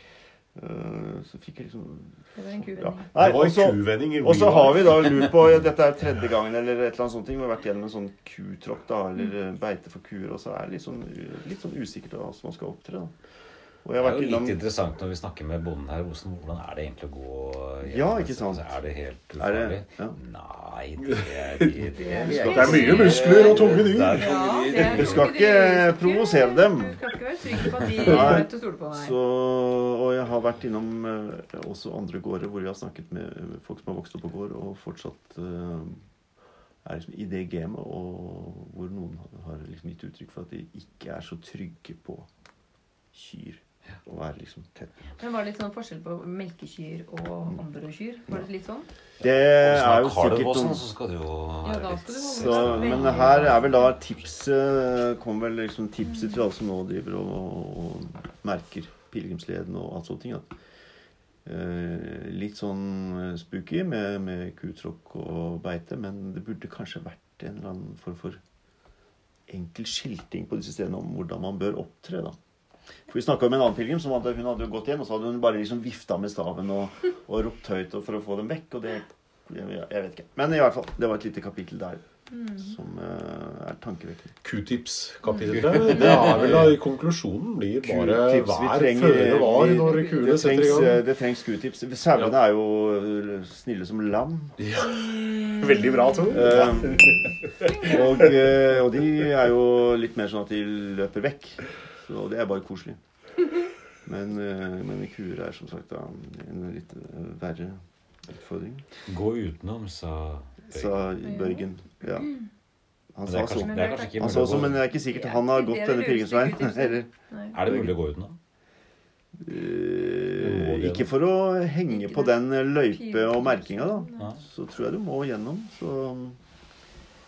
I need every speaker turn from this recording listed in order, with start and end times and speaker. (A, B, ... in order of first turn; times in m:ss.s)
0:00.5-0:02.1 A
0:02.4-0:03.0 B
0:02.6-0:13.1 A
0:03.1-0:05.2 C
0:13.8-0:14.6 A
0:14.0-0:25.4 D
0:17.8-0:18.7 A
0:19.4-0:20.2 A
0:21.0-0:24.4 C
0:21.9-0:29.2 B
0:22.2-0:24.0 A
0:24.7-0:27.0 A
0:27.8-0:36.0 A
0:36.8-0:42.3 A
0:43.1-0:45.1 A
0:45.2-0:48.9 B
0:49.2-0:50.8 A
0:49.6-0:53.9 D
0:51.6-0:53.6 B
0:52.3-1:00.5 A
1:01.4-1:08.4 A
1:09.5-1:12.4 A
1:13.1-1:24.3 A
1:22.4-1:22.6 B
1:24.4-1:31.0 C
1:25.6-1:26.7 D
1:27.8-1:34.6 A
1:29.6-1:30.3 B
1:34.6-1:37.9 C
1:35.0-1:35.6 B
1:36.3-1:37.2 A
1:37.7-1:43.0 A
1:44.0-1:47.8 A
1:48.3-1:48.8 A
1:49.1-1:51.1 D
1:50.7-1:52.3 A
1:51.2-1:51.6 B
1:53.1-1:58.0 A
1:53.2-1:54.9 D
1:53.5-1:57.6 B
1:57.5-1:58.4 D
1:59.4-2:06.4 A
2:00.4-2:01.1 C
2:01.9-2:04.3 B
2:04.1-2:04.4 D